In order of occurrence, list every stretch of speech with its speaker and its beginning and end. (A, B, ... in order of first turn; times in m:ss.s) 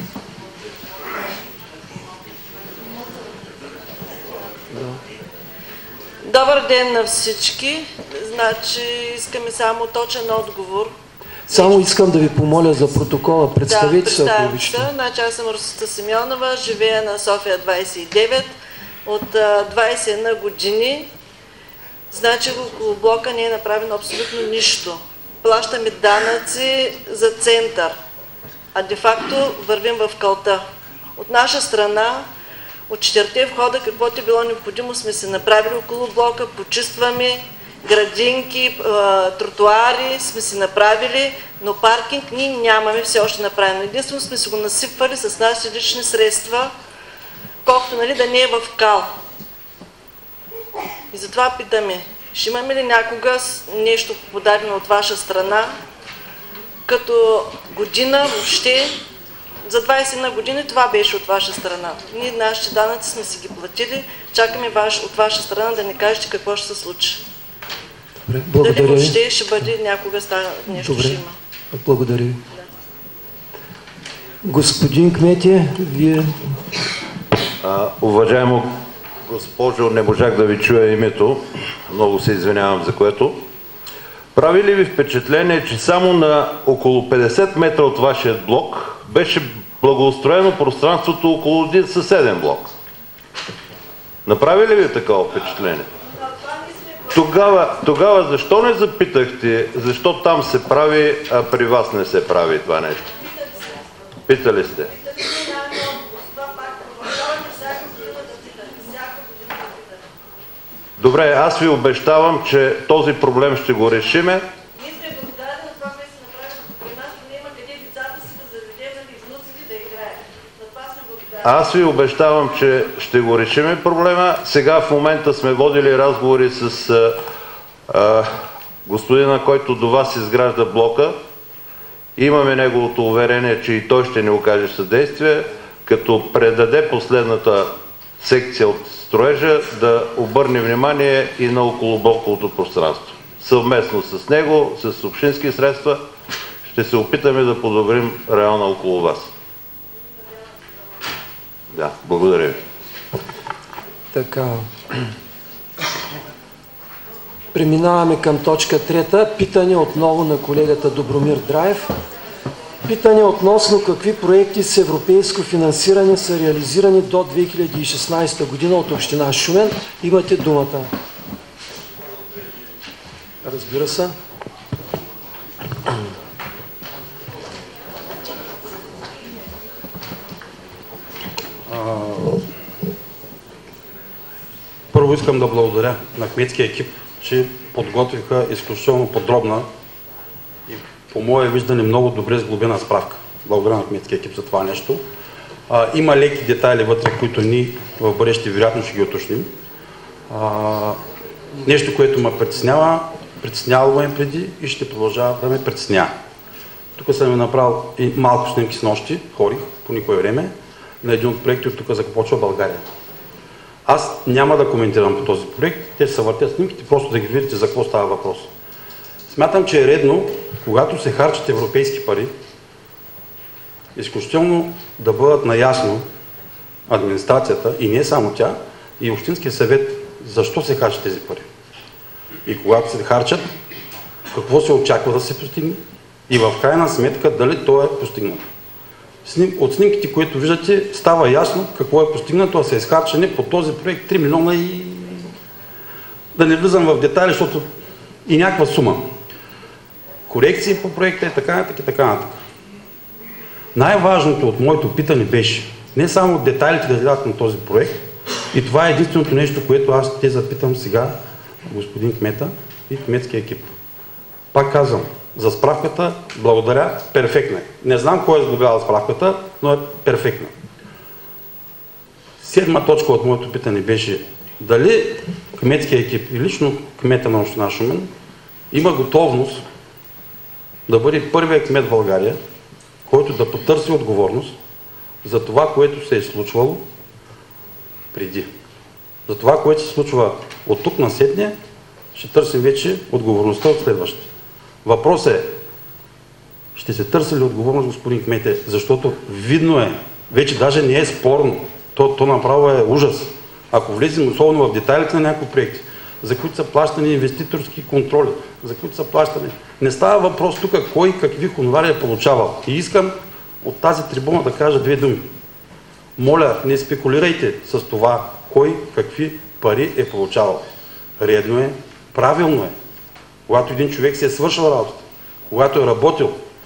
0:04.7-0:05.0 A
0:06.2-0:10.9 B
0:11.5-0:14.9 A
0:11.5-0:11.9 B
0:13.6-0:18.5 B
0:19.0-0:21.1 B
0:22.1-0:28.0 B
0:28.7-0:30.6 B
0:31.2-0:32.2 B
0:32.9-0:46.7 B
0:47.6-0:49.1 B
0:51.1-0:55.7 B
0:56.9-0:59.0 B
0:59.6-1:07.2 B
1:08.3-1:09.2 A
1:08.6-1:11.3 B
1:10.8-1:11.2 A
1:11.7-1:12.4 A
1:14.4-1:16.6 A
1:17.6-1:23.4 C
1:24.3-1:32.7 C
1:34.2-1:35.9 C
1:36.4-1:37.0 B
1:37.1-1:43.1 C
1:44.2-1:44.9 C
1:45.2-1:49.9 B
1:51.0-1:54.5 C
1:54.8-2:01.4 B
2:01.4-2:07.2 C
2:07.9-2:11.2 C
2:12.2-2:26.0 C
2:26.6-2:29.3 C
2:31.7-2:32.6 C
2:34.1-2:35.0 A
2:37.5-2:41.9 A
2:42.8-2:50.9 A
2:53.4-2:54.1 A
3:01.7-3:02.4 D
3:04.9-3:09.7 D
3:10.7-3:15.0 D
3:15.7-3:19.5 D
3:20.3-3:21.0 D
3:21.6-3:26.1 D
3:27.0-3:32.8 D
3:33.8-3:38.5 D
3:39.3-3:42.3 D
3:43.9-3:46.0 D
3:46.9-3:51.4 D
3:52.4-3:53.4 D
3:54.3-3:58.4 D
3:59.2-4:05.3 D
4:06.3-4:07.6 D
4:08.3-4:09.1 D
4:10.3-4:12.4 D
4:13.7-4:23.7 D
4:24.5-4:30.5 D
4:32.4-4:38.1 D
4:38.7-4:39.6 D
4:40.9-4:42.4 D
4:43.1-4:44.6 D
4:45.2-4:46.8 D
4:48.1-4:48.5 D
4:49.3-4:51.5 D
4:52.1-4:54.3 D
4:54.8-4:55.5 D
4:56.7-5:15.3 D
5:16.2-5:20.6 D
5:21.2-5:22.7 D
5:23.5-5:26.4 D